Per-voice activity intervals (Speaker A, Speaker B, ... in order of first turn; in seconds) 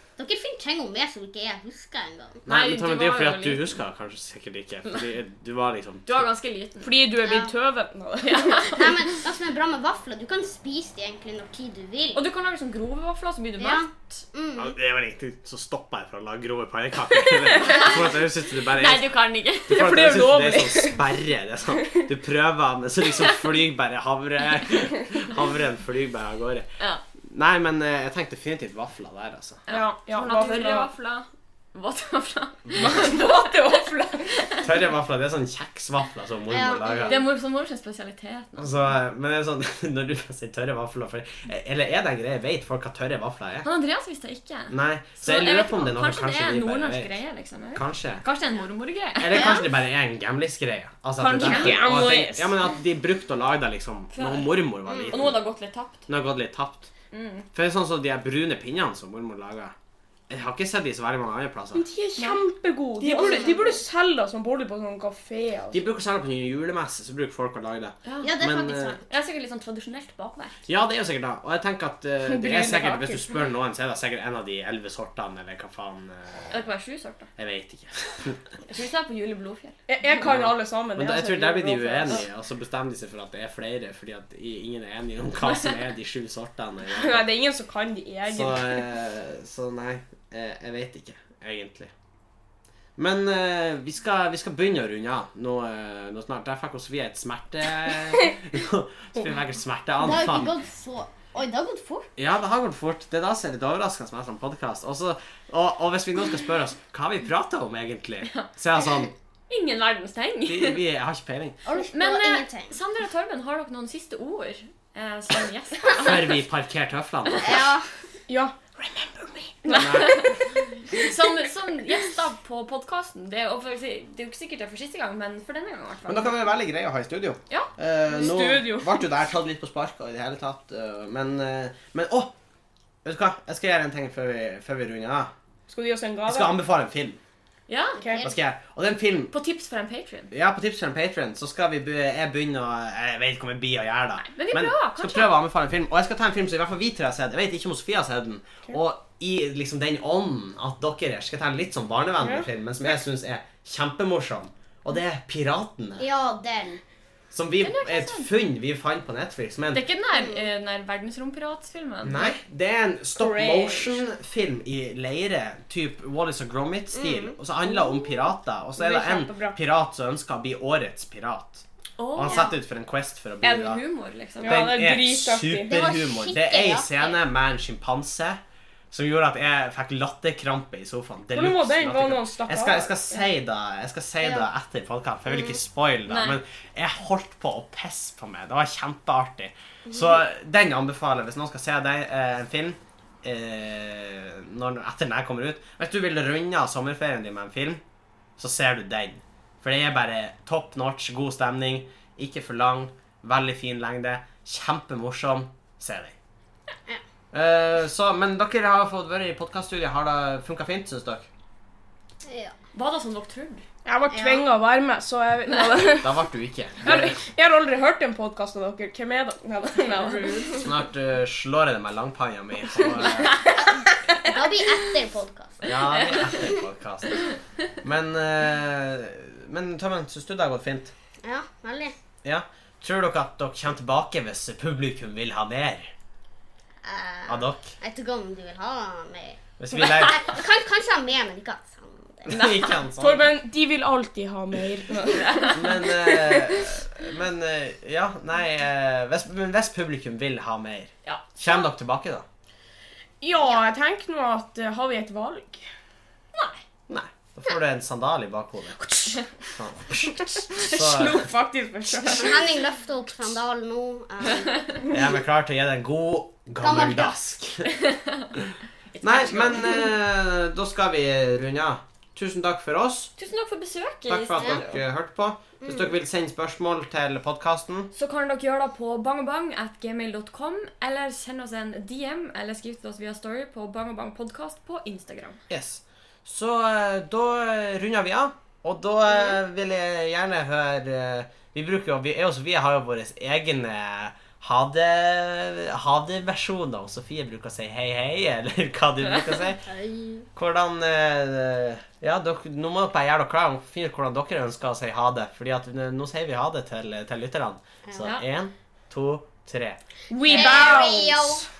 Speaker A: 0.2-2.4, 7.2-7.5, 8.8-12.2, 13.6-14.7, 36.5-37.2, 49.3-49.6, 54.9-55.2, 68.2-68.8, 100.0-102.1, 111.6-112.7, 117.4-117.9, 137.9-138.3, 156.0-156.8, 160.1-160.4, 166.9-167.3, 175.7-177.2, 189.9-190.2, 212.2-212.5, 214.1-214.5, 224.2-226.6, 231.2-231.9, 236.8-242.3, 262.1-264.5, 266.6-267.1, 275.6-275.9, 299.6-300.2, 310.2-311.4
Speaker B: 2.5-3.8, 6.1-7.0, 8.2-9.0, 12.1-14.2, 17.6-18.1, 18.7-19.9, 29.7-34.6, 37.0-38.7, 43.6-49.6, 51.2-52.6, 54.1-56.0, 57.1-57.5, 62.2-62.4, 63.0-63.7, 68.0-70.6, 76.5-77.3, 78.7-79.8, 109.5-110.8, 111.8-116.4, 117.3-117.6, 119.6-126.3, 137.7-138.0, 139.3-140.3, 144.2-145.3, 157.6-158.3, 159.7-162.3, 173.4-174.7, 186.1-186.4, 212.7-213.6, 220.0-220.4, 225.9-226.3, 245.1-245.5, 251.0-251.6, 256.3-256.6, 264.3-264.7, 267.8-268.3, 268.9-269.9, 273.2-274.8, 277.9-285.4, 310.3-310.7
Speaker C: 2.5-6.3, 14.5-19.1, 19.7-26.6, 27.3-29.6, 34.6-37.2, 38.6-43.6, 44.7-47.1, 47.7-48.2, 49.2-55.4, 56.1-56.9, 57.5-59.7, 60.3-61.9, 65.7-69.0, 70.7-76.5, 77.4-78.4, 80.2-87.2, 88.3-91.9, 93.0-100.5, 102.2-109.1, 110.5-111.5, 115.9-117.7, 119.7-120.2, 126.1-132.3, 133.0-135.3, 136.3-137.2, 138.2-139.3, 140.3-156.1, 157.3-159.8, 162.0-171.6, 172.1-173.8, 174.4-178.4, 178.9-197.8, 198.4-206.1, 207.3-211.3, 216.0-217.2, 220.6-223.4, 225.6-227.3, 227.8-230.9, 232.2-235.9, 237.3-237.7, 239.6-240.2, 242.2-243.2, 245.5-252.2, 256.9-258.8, 259.6-261.3, 264.9-267.7, 268.4-273.1, 274.1-277.9, 285.5-299.6, 300.3-309.8
Speaker D: 6.8-8.9, 19.7-21.0, 29.7-30.9, 32.7-34.3, 51.4-52.3, 61.7-65.8, 72.2-73.2, 79.9-82.2, 86.9-88.9, 118.3-120.2, 128.1-129.0, 135.7-136.5, 152.2-152.5, 163.2-164.1, 168.8-169.6, 172.0-172.3, 174.4-175.8, 181.3-183.2, 213.8-216.1, 216.8-220.7, 243.0-246.7, 253.2-255.6, 258.8-259.2, 260.4-262.4, 310.1-311.4